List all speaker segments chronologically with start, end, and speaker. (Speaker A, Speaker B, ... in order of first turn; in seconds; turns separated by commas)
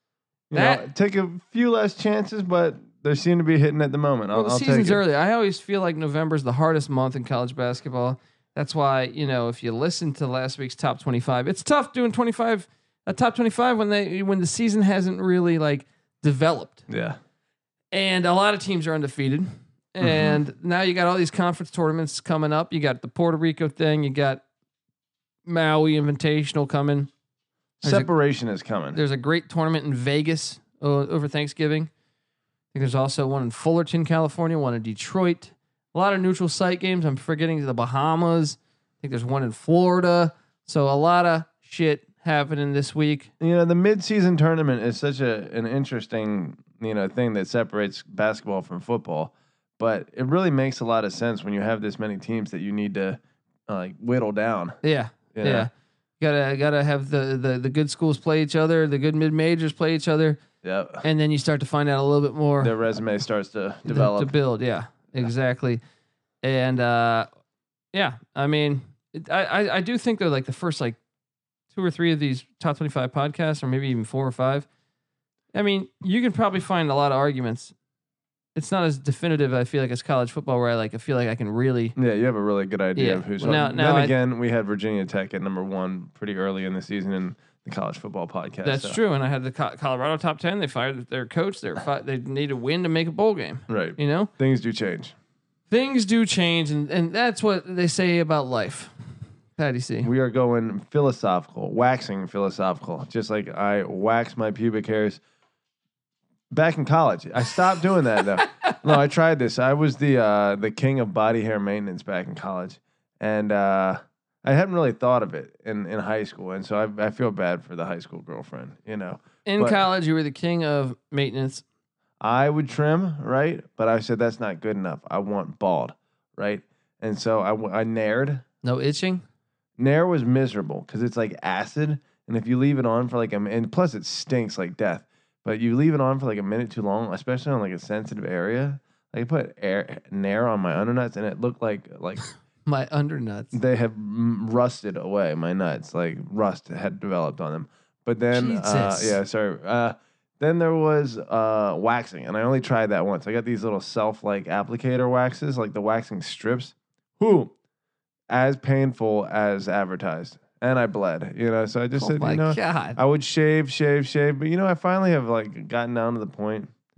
Speaker A: 0.5-5.0, Speaker B: 0.5-0.8, Speaker B: 4.3-16.8, Speaker A: 16.9-17.2, Speaker B: 17.9-24.4, Speaker A: 20.0-20.4, Speaker B: 25.4-27.1, Speaker A: 27.8-29.0, Speaker B: 27.8-28.1, Speaker B: 28.9-31.9, Speaker B: 32.7-43.3, Speaker A: 43.4-54.8, Speaker B: 54.8-60.4, Speaker A: 55.3-55.7, Speaker A: 60.6-61.0, Speaker B: 61.0-62.7, Speaker A: 62.6-64.3, Speaker B: 63.9-65.8, Speaker B: 66.4-67.3, Speaker B: 67.9-71.0, Speaker B: 71.7-74.7, Speaker B: 75.5-77.7, Speaker B: 78.5-82.0, Speaker A: 82.0-89.0, Speaker B: 83.0-84.2, Speaker B: 88.6-94.3, Speaker A: 93.7-95.1, Speaker B: 95.7-98.9, Speaker B: 99.5-100.1, Speaker A: 100.0-105.2, Speaker A: 106.5-119.8, Speaker B: 108.4-108.7, Speaker B: 119.4-121.6, Speaker A: 122.2-128.4, Speaker B: 128.6-129.2, Speaker A: 129.8-142.2, Speaker B: 142.7-143.6, Speaker A: 143.5-157.5, Speaker B: 148.3-149.2, Speaker A: 158.3-166.7, Speaker B: 162.0-163.0